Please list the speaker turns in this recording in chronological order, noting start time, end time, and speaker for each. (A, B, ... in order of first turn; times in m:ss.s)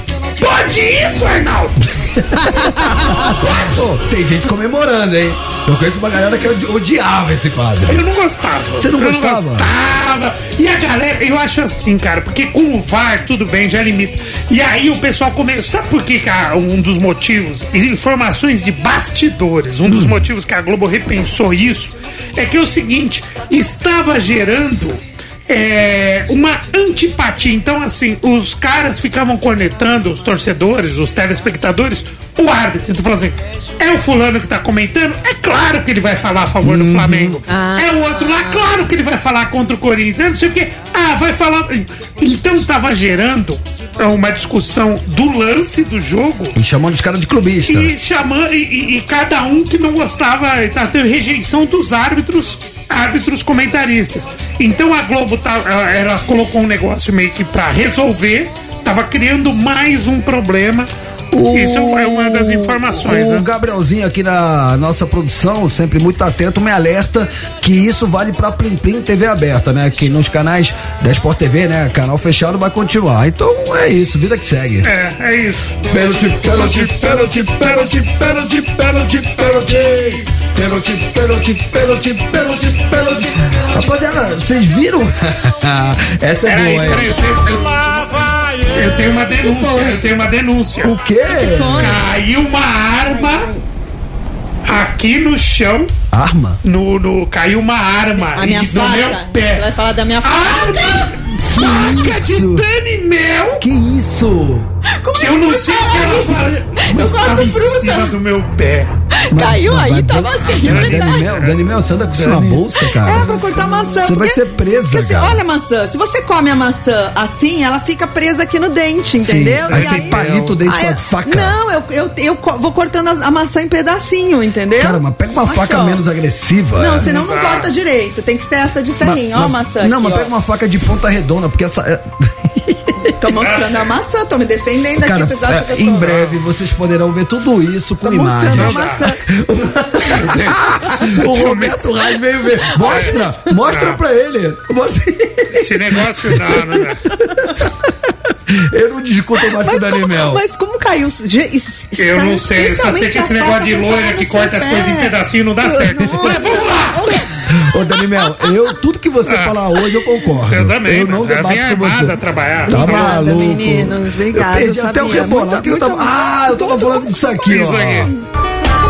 0:00.4-0:02.1 A
0:02.4-0:08.0 B
0:02.5-0:03.2 C
0:03.4-0:03.8 A
0:07.8-0:46.6 A
0:08.8-0:09.7 B
0:19.9-0:20.2 B
0:36.6-0:37.4 B
0:37.5-0:38.7 C
0:46.6-0:47.9 B
0:47.7-1:03.5 A
1:01.3-1:14.9 B
1:14.8-1:15.8 A
1:15.9-1:27.1 B
1:16.4-1:17.9 A
1:26.4-1:28.1 A
1:28.7-1:30.9 A
1:30.8-1:32.0 B
1:31.3-1:32.0 C
1:31.8-1:33.5 A
1:33.1-1:33.6 C
1:34.6-1:35.9 A
1:36.1-1:36.6 B
1:36.6-1:39.7 A
1:38.2-1:41.1 C
1:40.2-1:43.6 A
1:41.4-1:42.7 B
1:43.6-1:44.7 B
1:44.9-1:48.1 C
1:45.2-1:48.9 A
1:49.2-1:51.2 C
1:49.3-1:55.4 B
1:50.5-1:52.6 A
1:53.0-2:06.0 C
1:59.2-2:01.6 B
1:59.7-2:00.6 A
2:04.8-2:07.1 B
2:06.8-2:10.3 C
2:07.0-2:07.7 A
2:09.0-2:13.1 B
2:13.2-2:16.1 C
2:13.4-2:13.9 A
2:15.0-2:27.7 B
2:16.0-2:16.4 A
2:18.0-2:19.2 C
2:18.5-2:19.0 A
2:20.1-2:21.8 A
2:22.8-2:23.1 C
2:22.8-2:24.0 A
2:25.5-2:27.0 A
2:28.5-2:30.4 B
2:29.6-2:37.5 C
2:32.0-2:37.0 A
2:36.0-2:36.4 B
2:37.5-2:48.1 B
2:39.2-2:39.6 A
2:40.5-2:43.2 A
2:42.7-2:47.1 C
2:47.4-2:48.1 A